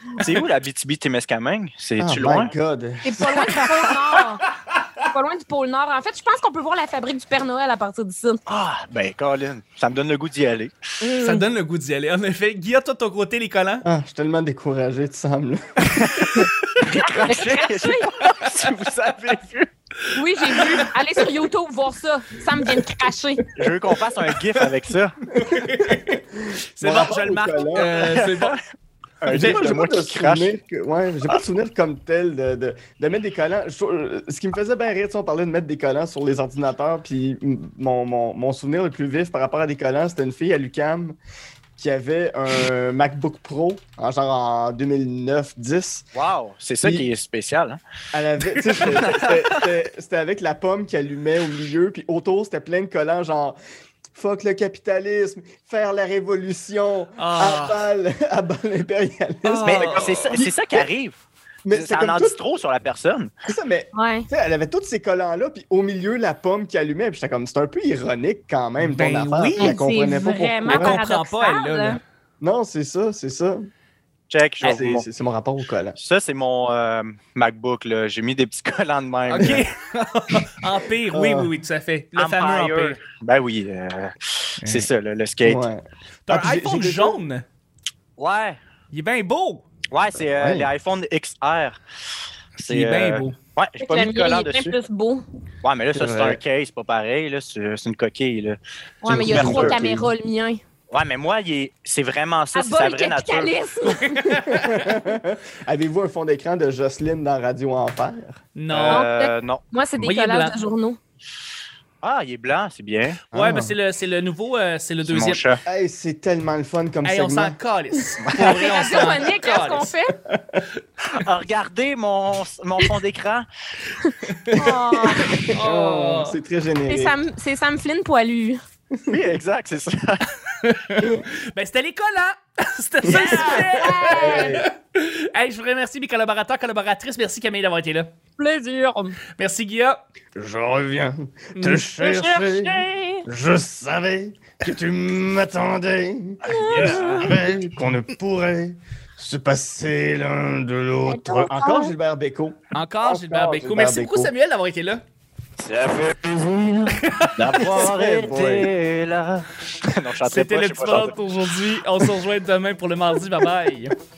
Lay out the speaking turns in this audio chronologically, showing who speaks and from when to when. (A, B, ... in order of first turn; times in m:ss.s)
0:00.2-0:02.5 A
0:02.0-0:03.5 B
0:03.0-0:04.4 C
0:05.0-0:08.4 C
0:08.5-0:10.7 A
0:11.0-0:11.4 C
0:11.2-0:13.8 D
0:13.8-0:16.4 B
0:15.9-0:16.5 A
0:16.9-0:18.1 C
0:17.2-0:19.7 A
0:20.1-0:23.4 C
0:23.6-0:25.2 A
0:25.3-0:28.6 D
0:26.8-0:28.0 B
0:27.8-0:28.6 A
0:29.2-0:30.5 A
0:29.3-0:41.2 B
0:29.3-0:29.6 D
0:41.8-0:46.1 B
0:46.1-0:47.8 A
0:46.8-0:47.1 B
0:48.1-0:53.6 B
0:48.5-0:48.8 D
0:48.8-0:49.6 A
0:54.1-1:00.8 B
0:57.2-0:57.8 D
0:59.4-1:00.3 D
0:59.6-1:01.2 A
1:01.6-1:02.4 B
1:01.7-1:03.3 A
1:03.5-1:11.0 B
1:03.9-1:04.3 C
1:08.8-1:09.8 D
1:09.6-1:12.0 C
1:10.7-1:12.0 D
1:12.4-1:13.6 B
1:14.3-1:15.0 A
1:14.6-1:16.0 B
1:15.9-1:19.6 A
1:19.3-1:23.0 D
1:21.1-1:21.5 B
1:22.2-1:25.6 A
1:24.6-1:24.9 D
1:25.4-1:27.2 B
1:26.3-1:27.4 D
1:28.2-1:28.6 A
1:28.9-1:29.6 D
1:29.9-1:31.8 A
1:30.3-1:30.7 B
1:32.6-1:33.4 D
1:32.6-1:34.8 A
1:33.8-1:35.2 C
1:35.6-1:38.6 A
1:35.9-1:36.4 B
1:39.0-1:40.6 C
1:39.0-1:40.1 B
1:39.1-1:39.8 A
1:40.9-1:43.5 A
1:42.5-1:44.2 C
1:44.0-1:44.9 D
1:44.3-1:48.4 B
1:48.6-1:49.0 D
1:48.7-1:49.6 A
1:48.9-1:51.0 C
1:50.0-1:50.6 D
1:52.0-1:53.2 A
1:53.2-1:55.4 D
1:53.3-1:53.7 B
1:55.0-1:55.6 A
1:55.6-1:57.6 B
1:57.0-1:59.9 D
1:58.4-2:00.1 C
2:00.3-2:00.6 B
2:01.1-2:03.4 A
2:04.0-2:05.4 C
2:04.6-2:07.2 B
2:05.5-2:06.4 D
2:06.9-2:08.6 C
2:09.1-2:10.2 A
2:10.6-2:18.1 D
2:13.0-2:14.6 B
2:13.0-2:14.6 C
2:18.4-2:19.2 C
2:19.4-2:20.0 D
2:20.3-2:34.3 B
2:21.6-2:21.9 D
2:22.0-2:23.2 C
2:26.4-2:27.3 C
2:26.6-2:27.1 A
2:26.9-2:27.3 D
2:31.0-2:31.9 C
2:32.7-2:35.0 D
2:35.6-2:41.2 A
2:36.9-2:37.8 D
2:37.6-2:38.7 B
2:40.2-2:43.9 D